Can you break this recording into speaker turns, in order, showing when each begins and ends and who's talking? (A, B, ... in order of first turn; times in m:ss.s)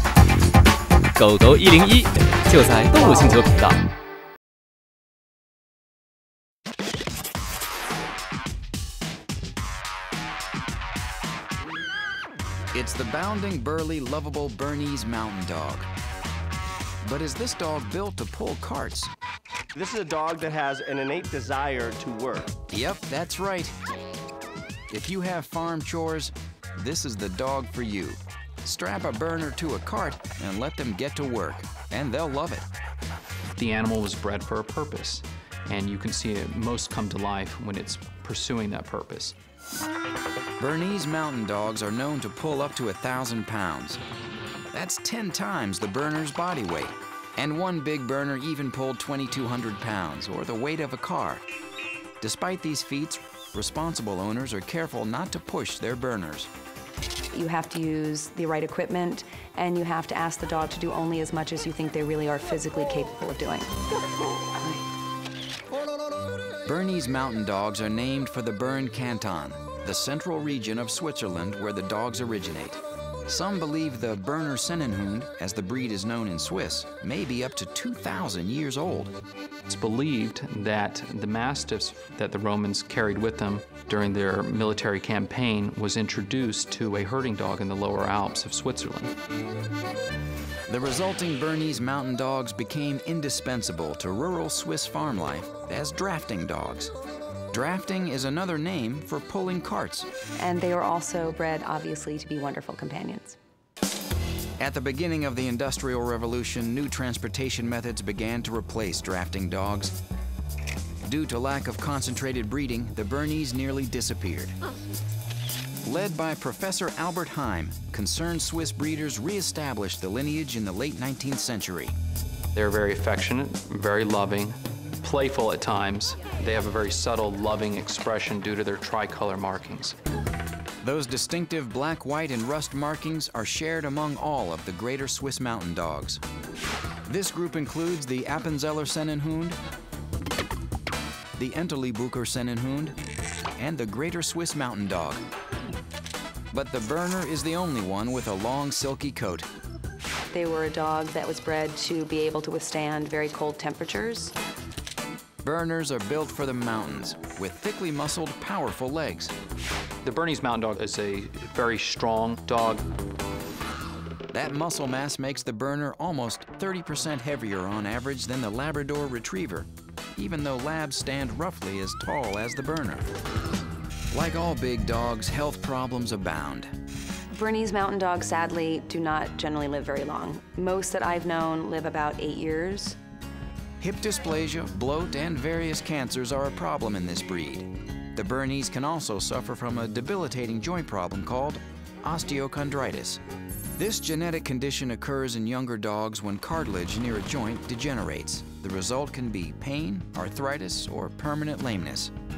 0:01.2-0:03.8 A
0:12.7-0:15.9 B
0:17.0-0:19.1 B
0:19.8-0:22.5 C
0:22.7-0:23.8 B
0:24.9-0:32.7 B
0:33.5-0:39.4 D
0:40.6-0:44.0 B
0:44.7-0:51.4 B
0:52.2-0:56.5 B
0:57.3-1:03.7 E
1:06.7-1:19.1 B
1:19.7-1:29.1 D
1:30.7-1:36.9 B
1:37.5-1:40.1 B
1:40.4-1:43.4 E
1:44.6-1:50.0 B
1:51.0-1:54.6 B
1:55.8-2:02.0 B
2:02.6-2:10.0 D
2:10.8-2:16.2 B
2:17.1-2:19.6 B
2:21.4-2:23.0 B
2:23.6-2:25.2 B
2:26.5-2:29.5 B
2:30.3-2:34.3 E
2:35.4-2:39.3 B
2:40.0-2:42.8 D
2:44.3-2:53.1 B
2:54.1-2:56.7 B
2:57.3-3:03.0 E
3:03.8-3:13.2 B
3:13.8-3:22.1 B